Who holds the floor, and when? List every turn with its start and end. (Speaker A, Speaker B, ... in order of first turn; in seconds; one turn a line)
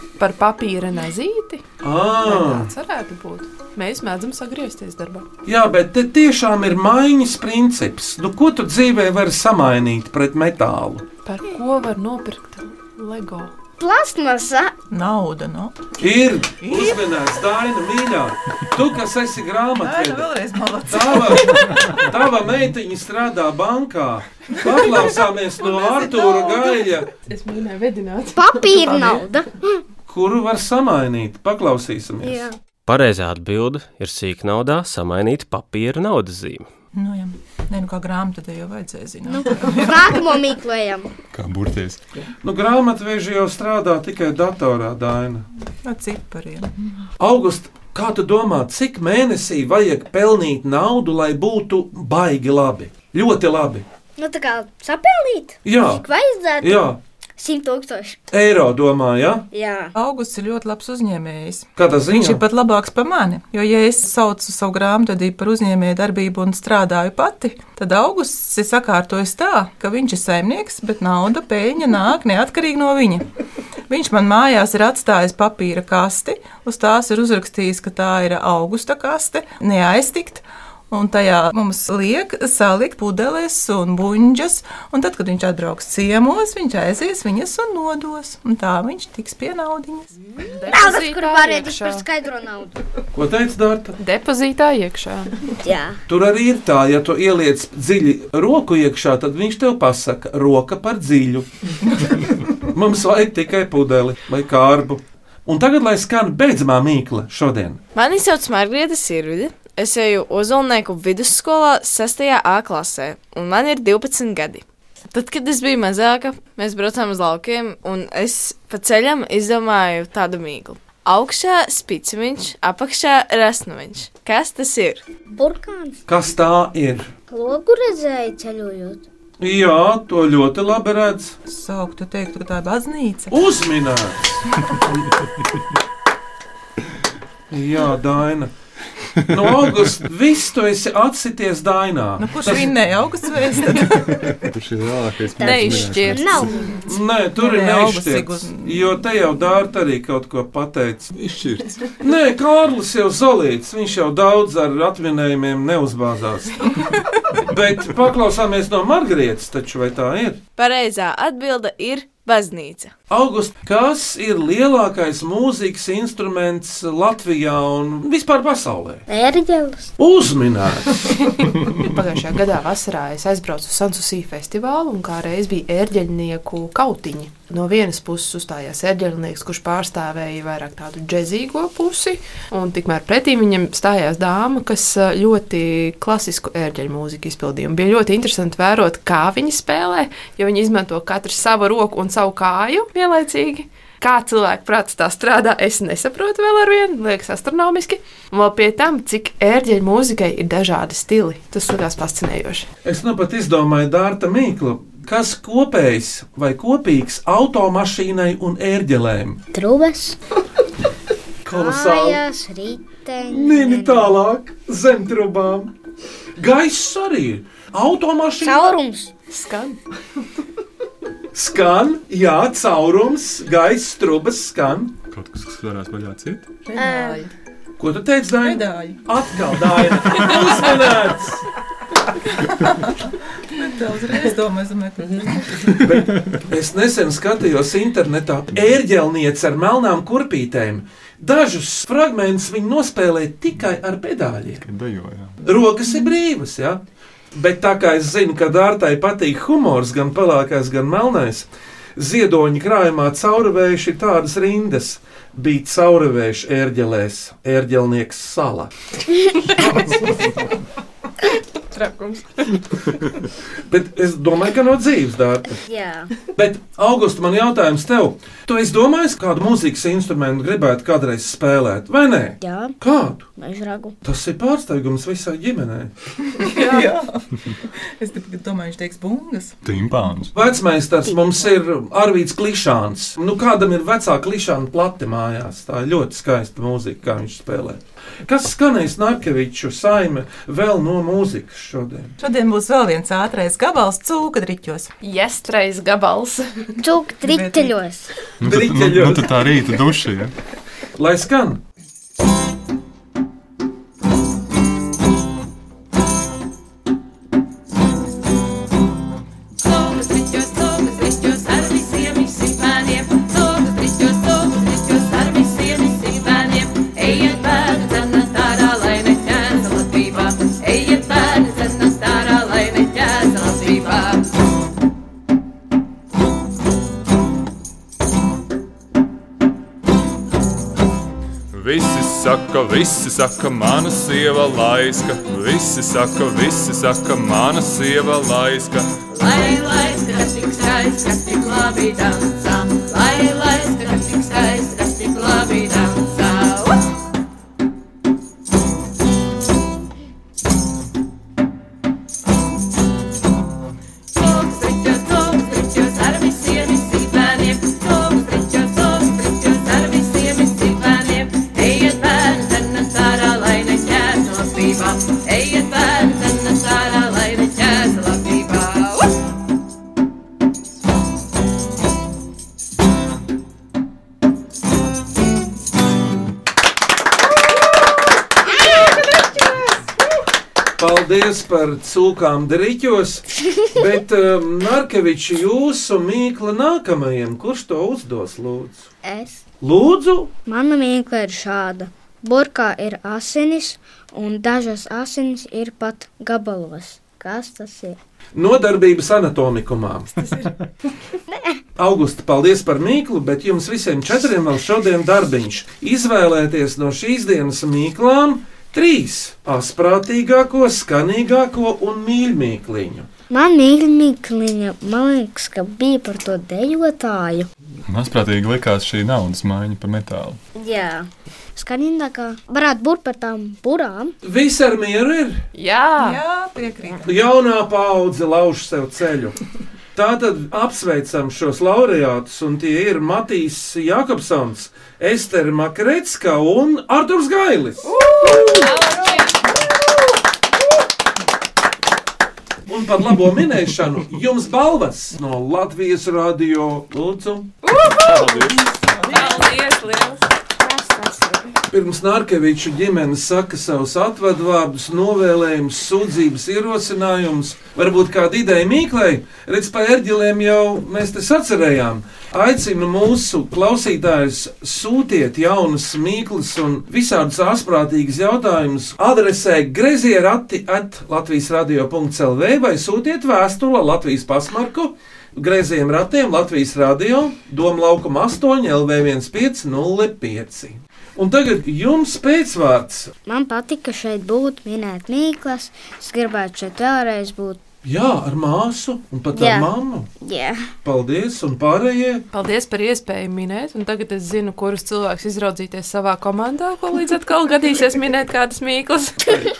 Speaker A: 0.2-1.6
Speaker B: 1.8-2.7
Speaker A: 2.2-5.3
Speaker B: 5.5-11.1
Speaker A: 11.2-13.5
Speaker C: 13.8-14.7
Speaker D: 14.9-15.8
Speaker B: 16.0-20.3
Speaker D: 16.6-17.0
Speaker D: 19.8-22.0
Speaker B: 20.8-27.1
Speaker D: 25.8-26.5
Speaker A: 27.2-29.2
Speaker C: 28.4-29.8
Speaker B: 30.1-32.5
Speaker C: 32.2-32.5
Speaker E: 32.9-36.7
Speaker D: 36.9-40.2
Speaker C: 39.3-41.1
Speaker F: 41.3-42.0
Speaker B: 42.4-45.5
Speaker D: 45.8-47.1
Speaker B: 47.2-53.9
Speaker C: 54.2-58.2
Speaker B: 55.6-56.0
Speaker B: 56.6-57.0
Speaker B: 58.3-59.5
Speaker C: 59.5-59.9
Speaker D: 60.0-73.2
Speaker B: 61.8-62.4
Speaker D: 73.9-90.1
Speaker C: 90.3-92.8
Speaker A: 90.4-92.0
Speaker B: 93.1-94.0
Speaker A: 94.0-95.4
Speaker C: 95.6-96.0
Speaker B: 96.1-107.8
Speaker G: 107.9-125.0
Speaker C: 125.3-126.0
Speaker B: 126.1-127.1
Speaker C: 127.3-129.1
Speaker B: 129.4-131.3
Speaker D: 131.5-133.3
Speaker B: 133.3-135.1
Speaker B: 137.5-138.5
Speaker B: 139.3-142.7
Speaker D: 142.2-144.4
Speaker F: 143.8-146.7
Speaker C: 145.4-146.8
Speaker A: 145.4-146.5
Speaker B: 146.8-151.1
Speaker D: 147.3-148.9
Speaker F: 151.1-151.9
Speaker B: 152.0-156.8
Speaker B: 157.3-160.4
Speaker G: 160.6-162.9
Speaker B: 163.1-169.1
Speaker C: 169.1-169.9
Speaker B: 170.0-171.1
Speaker A: 171.4-202.7
Speaker B: 202.8-209.4
Speaker C: 209.5-210.2
Speaker B: 211.4-212.2
Speaker C: 211.5-214.1
Speaker B: 213.3-215.7
Speaker B: 216.4-218.7
Speaker C: 218.4-219.1
Speaker A: 219.3-219.8
Speaker B: 221.3-224.9
Speaker F: 225.1-226.5
Speaker D: 226.7-227.3
Speaker C: 226.7-227.2
Speaker B: 227.8-231.5
Speaker D: 228.4-229.0
Speaker D: 232.3-235.7
Speaker B: 235.6-244.6
Speaker F: 244.5-245.4
Speaker B: 245.4-246.8
Speaker B: 247.3-258.7
Speaker B: 259.4-260.4
Speaker A: 261.7-262.3
Speaker B: 263.7-265.5
Speaker C: 265.7-266.1
Speaker B: 266.4-273.2
Speaker C: 272.4-272.8
Speaker C: 273.4-273.9
Speaker B: 274.0-275.9
Speaker D: 276.3-279.6
Speaker F: 279.6-280.3
Speaker B: 280.3-292.1
Speaker C: 281.1-281.5
Speaker D: 292.2-294.9
Speaker A: 295.0-296.7
Speaker C: 296.8-298.1
Speaker D: 297.2-297.7
Speaker B: 298.4-299.6
Speaker F: 298.4-300.3
Speaker B: 300.9-301.6
Speaker H: 309.6-324.2
Speaker F: 331.5-339.0
Speaker H: 339.2-346.6
Speaker H: 354.1-369.1
Speaker C: 378.5-379.5
Speaker B: 380.8-388.9
Speaker C: 389.0-389.4
Speaker B: 389.6-390.3
Speaker C: 390.5-398.0
Speaker B: 398.3-400.1
Speaker A: 400.2-400.5
Speaker B: 401.8-413.1
Speaker C: 413.3-417.5
Speaker F: 417.9-420.4
Speaker C: 420.5-424.1
Speaker B: 424.2-425.4
Speaker A: 425.5-426.2
Speaker D: 426.0-427.1
Speaker B: 427.0-429.3
Speaker B: 429.9-438.4
Speaker A: 438.3-439.3
Speaker B: 442.7-447.5
Speaker A: 447.6-448.3
Speaker D: 447.9-449.5
Speaker F: 448.0-448.4
Speaker A: 449.0-450.2
Speaker C: 450.6-451.6
Speaker B: 451.7-483.1
Speaker C: 483.2-487.6
Speaker B: 487.8-490.1
Speaker C: 489.3-490.7
Speaker B: 490.8-492.2
Speaker A: 492.3-499.2